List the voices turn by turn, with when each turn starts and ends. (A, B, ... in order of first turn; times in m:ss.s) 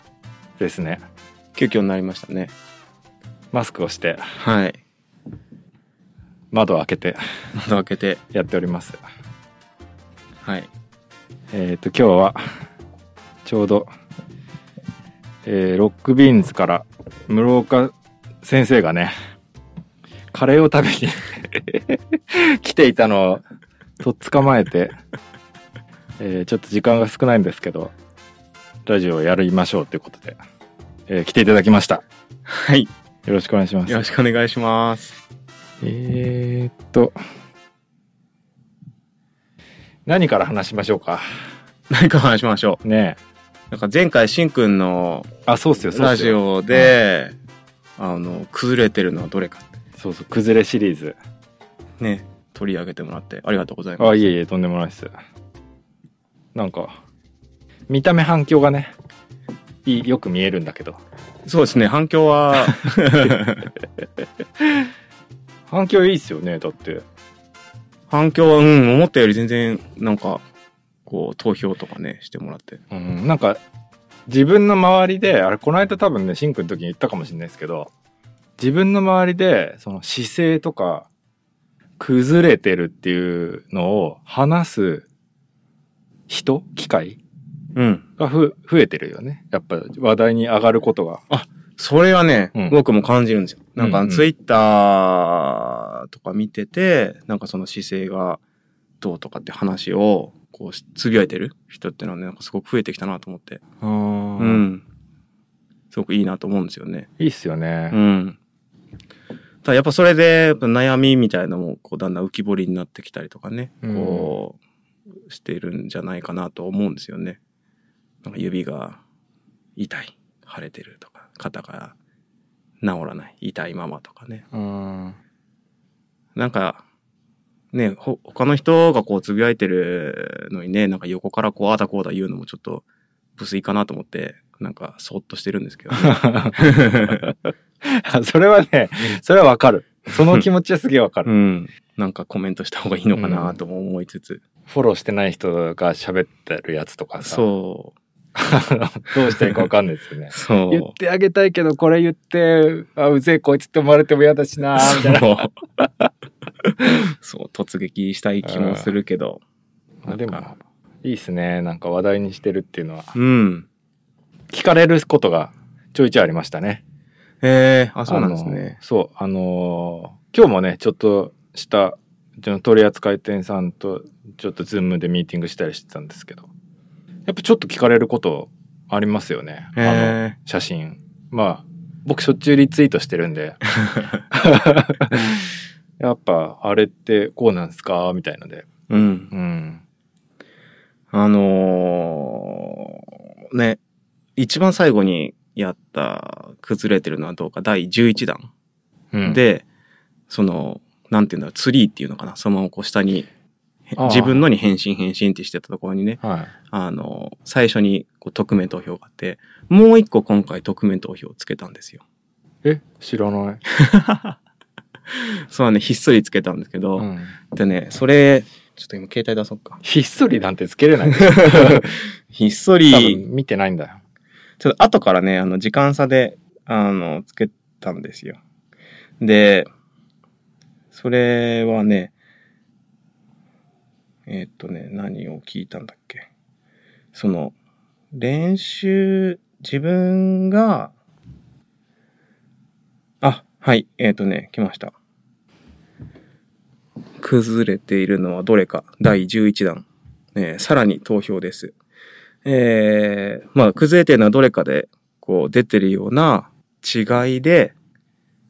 0:00.6-0:01.0 A
0:01.6-0:02.5 B
0:03.5-0:04.3 A
0:04.4-0:04.8 B
0:06.5-0:07.2 A
0:07.5-0:08.2 B
0:08.3-0:09.0 A
0:10.4-0:10.7 B
0:11.5-0:12.4 A
0:13.4-0:13.9 A
0:15.4-0:19.1 A
0:20.3-0:23.4 A
0:24.0-0:25.0 A
0:26.2-0:27.9 A
0:28.9-0:30.4 A
0:31.1-0:32.0 A
0:32.5-0:32.9 B
0:33.2-0:34.0 A
0:33.9-0:35.1 B
0:35.8-0:37.2 A
0:40.1-0:41.2 A
0:41.9-0:42.8 B
0:42.8-0:43.2 A
0:43.7-0:45.3 B
0:45.5-0:46.9 A
0:45.9-0:47.3 B
0:48.0-0:49.7 B
0:50.0-0:51.2 A
0:52.0-0:54.2 B
0:54.0-0:55.1 A
0:56.5-0:57.0 A
0:57.9-0:58.9 A
0:59.8-1:01.0 A
1:01.4-1:03.7 B
1:05.7-1:07.0 A
1:08.1-1:10.4 B
1:11.1-1:12.8 B
1:12.9-1:13.6 A
1:14.3-1:17.9 A
1:18.6-1:21.1 A
1:22.0-1:25.0 A
1:26.3-1:27.2 A
1:27.7-1:28.0 B
1:28.2-1:31.2 A
1:31.3-1:38.4 B
1:33.8-1:34.3 A
1:39.0-1:43.6 B
1:43.8-1:44.6 A
1:44.4-1:44.8 B
1:45.9-1:47.1 B
1:47.2-1:48.0 A
1:47.9-1:48.4 B
1:49.6-1:54.6 B
1:53.8-1:54.3 A
1:55.3-1:57.4 B
1:58.2-1:59.0 B
1:59.8-2:02.0 B
2:02.8-2:04.4 B
2:04.5-2:05.2 A
2:06.4-2:06.8 B
2:07.7-2:12.8 B
2:13.4-2:17.3 B
2:16.0-2:17.3 A
2:17.8-2:21.3 A
2:21.2-2:24.4 B
2:23.2-2:23.6 A
2:24.7-2:27.4 A
2:27.2-2:27.9 B
2:28.3-2:35.5 A
2:30.3-2:30.9 B
2:34.8-2:35.9 B
2:36.6-2:39.4 B
2:38.4-2:38.9 A
2:40.0-2:43.1 A
2:40.1-2:40.4 B
2:43.1-2:43.6 B
2:44.5-2:46.8 A
2:47.4-2:48.8 B
2:48.1-2:56.5 A
2:57.3-3:03.6 A
2:59.8-3:00.3 B
3:04.3-3:08.6 A
3:08.9-3:09.3 B
3:09.3-3:09.8 A
3:11.1-3:13.8 B
3:14.4-3:18.5 B
3:19.1-3:19.4 A
3:19.2-3:19.6 B
3:20.3-3:23.3 B
3:23.9-3:32.0 B
3:24.0-3:24.4 A
3:26.2-3:26.5 A
3:32.6-3:33.6 A
3:33.8-3:34.4 B
3:35.1-3:39.8 B
3:37.0-3:37.4 A
3:39.8-3:42.0 A
3:41.2-3:43.2 B
3:42.9-3:44.0 A
3:44.6-3:48.4 B
3:49.2-3:49.7 B
3:50.9-3:52.1 B
3:54.3-3:56.3 B
3:57.1-3:57.6 B
3:58.1-4:00.9 B
4:03.2-4:04.9 B
4:07.2-4:11.7 B
4:12.4-4:17.7 B